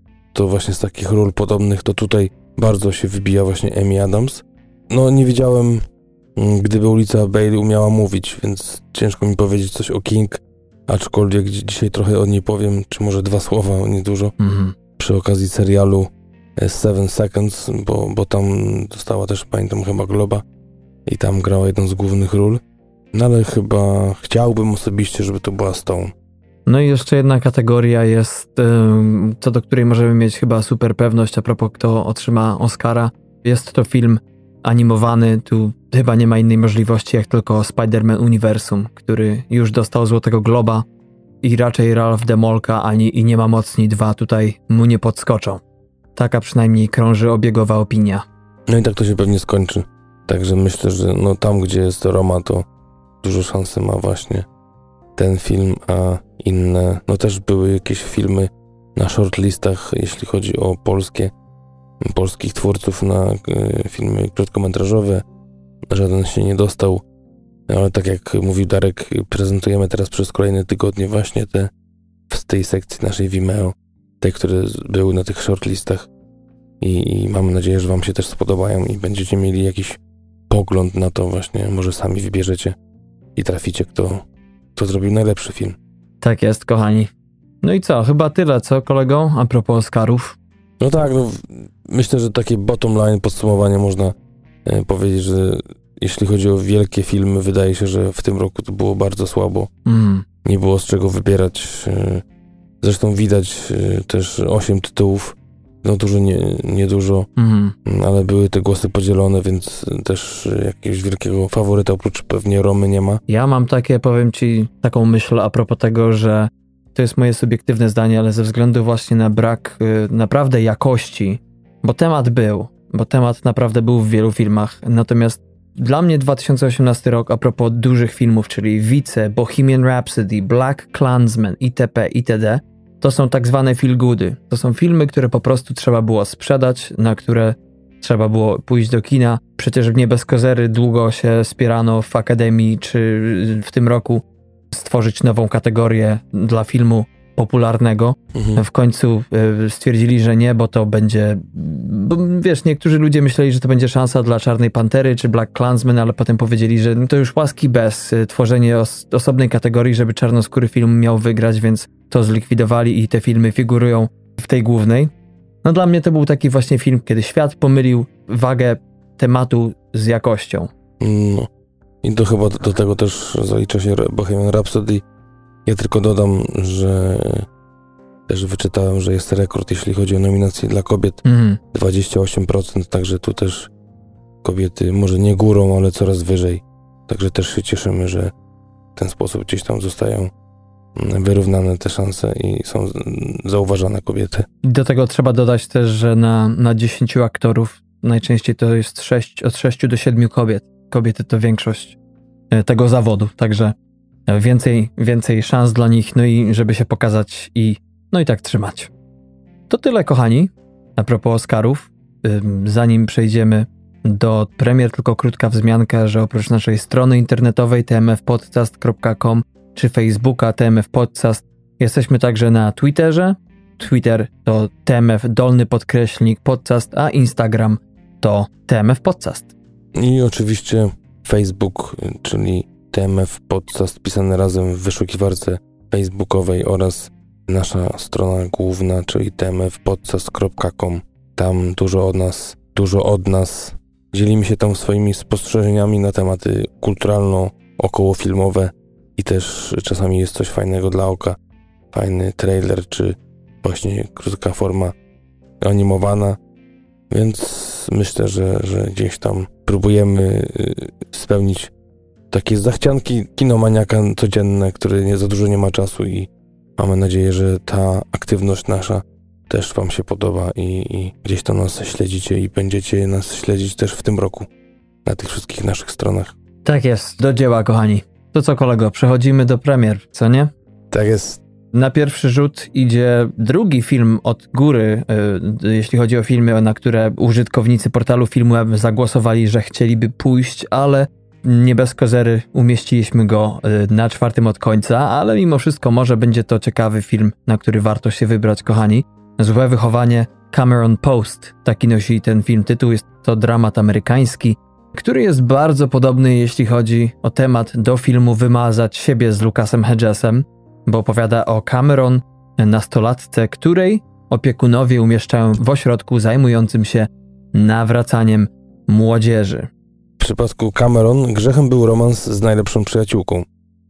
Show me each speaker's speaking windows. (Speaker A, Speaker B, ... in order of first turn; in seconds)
Speaker A: 0.3-14.3, 15.0-20.4, 21.1-22.6, 23.1-26.1, 48.7-52.6, 53.2-54.5, 55.1-61.3, 62.0-65.2, 65.9-67.0, 67.7-71.7, 72.3-76.1, 76.8-82.8, 83.3-84.2, 84.8-85.8, 90.8-94.1, 94.6-99.7, 100.4-102.2, 102.8-107.3, 107.8-113.2, 148.3-148.6, 171.0-171.5, 172.0-175.0, 175.7-177.5, 178.3-183.7, 184.4-188.3, 188.9-190.3, 190.9-194.5, 229.9-251.4, 251.9-254.9, 255.6-256.4, 257.1-261.7, 262.3-274.5, 275.0-276.3, 280.9-281.4, 320.2-323.5
Speaker B: 14.4-14.7, 26.6-40.9, 41.4-45.6, 46.1-48.2, 86.2-87.1, 87.6-90.4, 99.8-100.2, 107.4-107.8, 113.3-165.1, 165.6-170.7, 181.2-181.6, 194.6-202.0, 202.5-203.7, 204.3-208.9, 209.7-229.5, 276.6-280.5, 281.7-319.7